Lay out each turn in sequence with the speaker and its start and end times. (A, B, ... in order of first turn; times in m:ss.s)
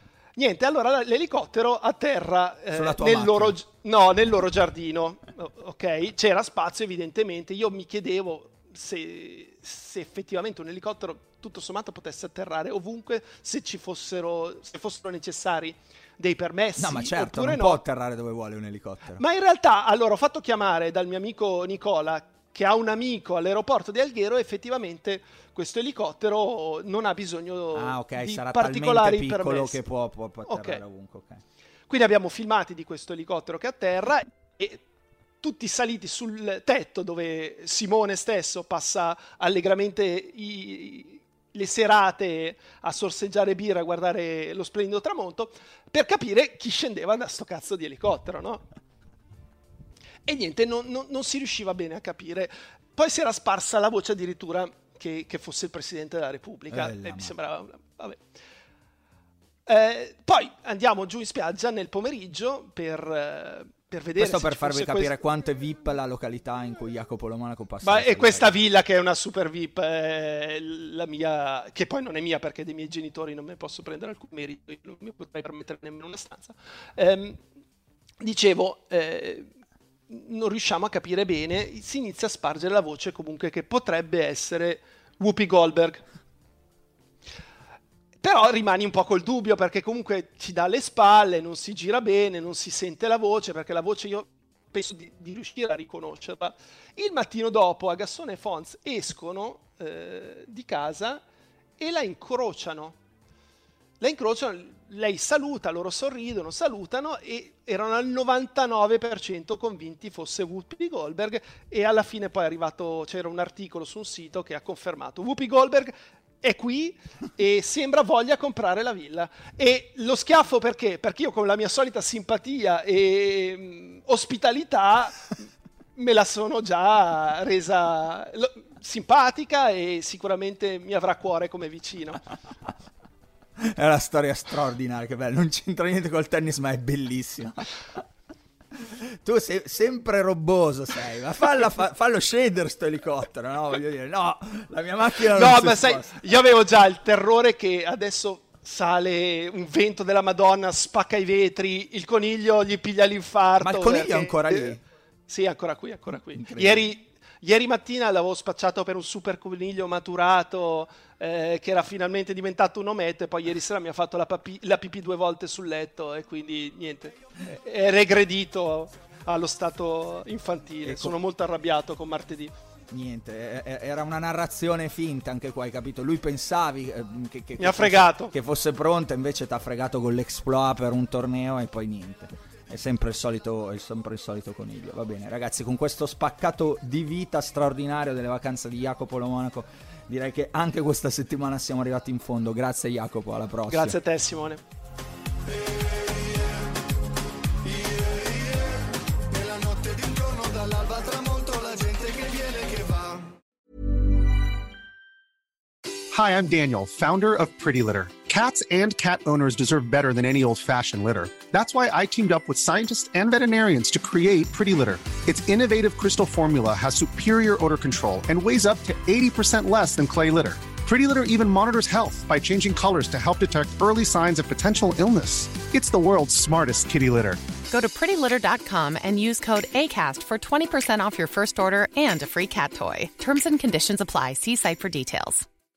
0:00.4-0:17.8 A
0:02.7-0:03.6 B
0:16.8-0:19.2 B
0:19.2-0:29.8 A
0:27.7-0:31.4 B
0:30.5-0:30.8 A
0:31.9-0:34.8 A
0:35.4-0:48.7 A
0:50.3-0:58.2 A
0:56.7-0:57.3 B
0:59.7-1:05.2 A
1:04.2-1:08.6 B
1:07.8-1:17.4 A
1:18.2-1:19.5 A
1:20.1-1:26.0 A
1:28.2-1:41.2 A
1:41.8-1:43.0 A
1:44.0-2:05.3 A
2:06.0-2:12.2 A
2:13.6-2:18.0 B
2:18.7-2:26.2 B
2:25.3-2:34.8 A
2:33.6-2:34.8 B
2:35.3-2:52.5 A
2:36.4-2:36.8 B
2:50.8-2:51.2 B
2:52.9-3:14.0 B
2:57.6-2:58.3 A
3:13.7-3:14.6 A
3:17.6-3:18.8 C
3:19.3-3:23.3 C
3:26.1-3:47.4 C
3:47.7-3:55.5 D